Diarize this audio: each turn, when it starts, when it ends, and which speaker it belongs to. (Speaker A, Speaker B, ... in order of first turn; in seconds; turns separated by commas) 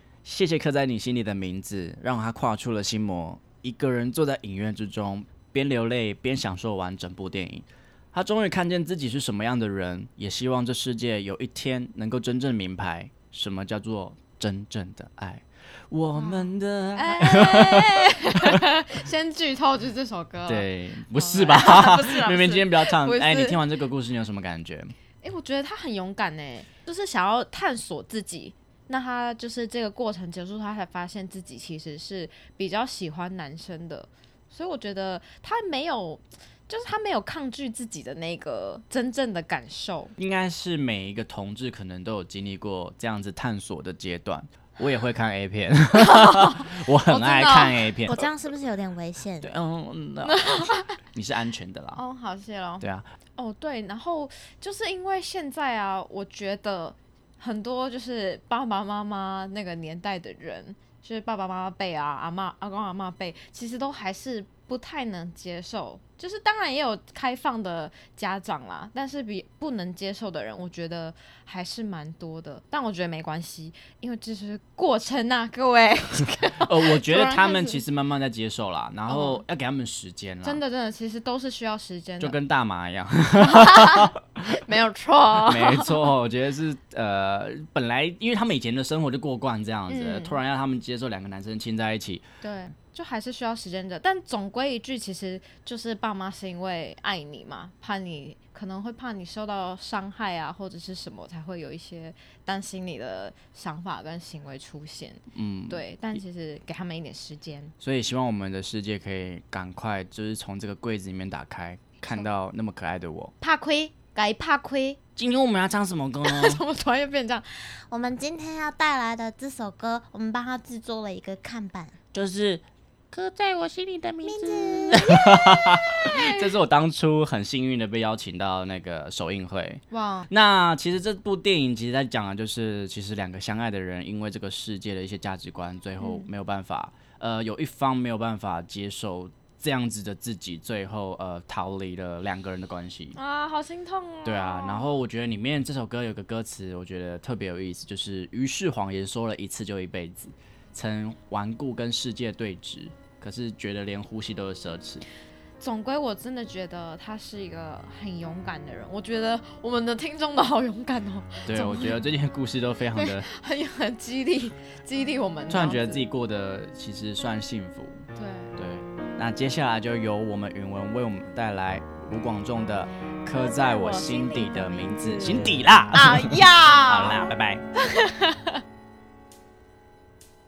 Speaker A: 0.2-18.9, Speaker B: 16.1-23.6, Speaker A: 20.4-24.9, Speaker B: 25.2-40.1, Speaker A: 40.2-48.2, Speaker B: 45.9-48.3, Speaker C: 48.1-49.5, Speaker A: 49.4-52.0, Speaker B: 50.2-51.0, Speaker B: 52.0-52.8, Speaker A: 52.8-53.1, Speaker B: 53.4-77.8, Speaker A: 76.6-80.6, Speaker B: 79.1-79.4, Speaker B: 80.4-82.3, Speaker A: 82.2-84.2, Speaker B: 83.4-86.1, Speaker A: 85.4-92.2, Speaker B: 89.9-90.4, Speaker B: 92.4-107.7, Speaker A: 105.3-106.2, Speaker A: 107.8-113.3, Speaker B: 113.4-115.0, Speaker A: 115.2-116.6, Speaker B: 116.2-117.4, Speaker C: 117.9-121.9, Speaker A: 122.1-122.6, Speaker C: 123.1-125.2, Speaker B: 124.2-124.7, Speaker A: 124.9-143.2, Speaker B: 126.0-126.5, Speaker B: 129.9-130.3, Speaker B: 136.0-136.3, Speaker B: 143.1-144.9, Speaker A: 144.2-155.0, Speaker B: 155.6-162.1, Speaker A: 161.5-163.3, Speaker B: 162.9-166.1, Speaker A: 165.5-177.6, Speaker B: 168.1-168.5, Speaker B: 173.3-178.6